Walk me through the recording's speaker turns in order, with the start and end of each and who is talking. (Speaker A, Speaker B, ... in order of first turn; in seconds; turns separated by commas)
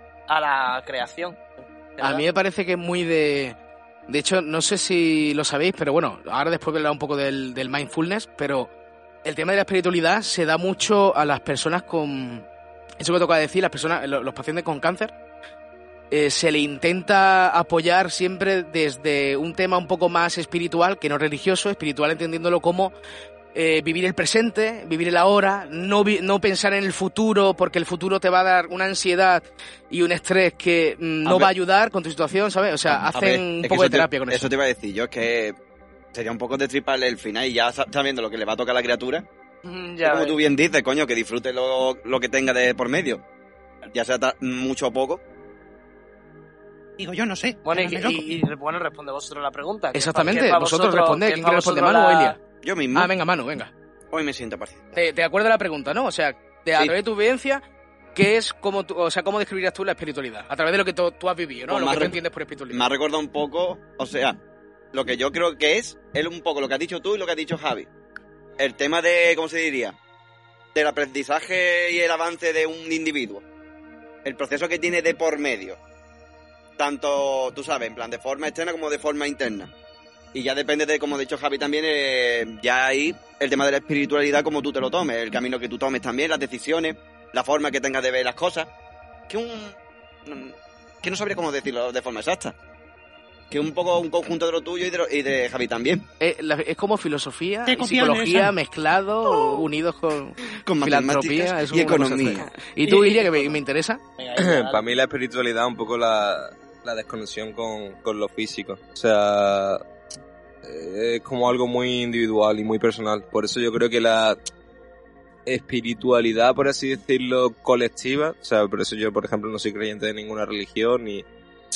Speaker A: 0.3-2.2, Speaker B: 2.0-3.6, Speaker B: 4.1-8.7, Speaker B: 9.2-12.4, Speaker B: 13.0-15.1, Speaker B: 16.1-22.9, Speaker B: 23.5-34.5, Speaker C: 31.2-31.5, Speaker C: 33.0-35.6, Speaker C: 36.1-39.2, Speaker A: 39.6-40.4, Speaker C: 40.0-43.2, Speaker C: 43.9-45.2, Speaker D: 47.0-48.4, Speaker A: 47.6-52.4, Speaker B: 49.9-52.4, Speaker C: 52.6-53.1, Speaker B: 52.9-53.7, Speaker C: 54.1-54.8, Speaker B: 54.9-57.6, Speaker B: 58.1-62.9, Speaker C: 61.7-62.2, Speaker C: 62.7-64.4, Speaker C: 64.9-67.9, Speaker C: 68.6-70.0, Speaker C: 70.7-73.4, Speaker C: 74.2-75.8, Speaker C: 76.8-79.7, Speaker C: 80.3-88.7, Speaker C: 89.3-92.5, Speaker C: 93.5-96.1, Speaker B: 96.2-104.0, Speaker D: 97.7-98.5, Speaker C: 100.6-102.5, Speaker A: 102.8-103.5, Speaker A: 104.2-104.9, Speaker E: 104.4-109.8, Speaker E: 110.6-114.4, Speaker E: 115.5-121.2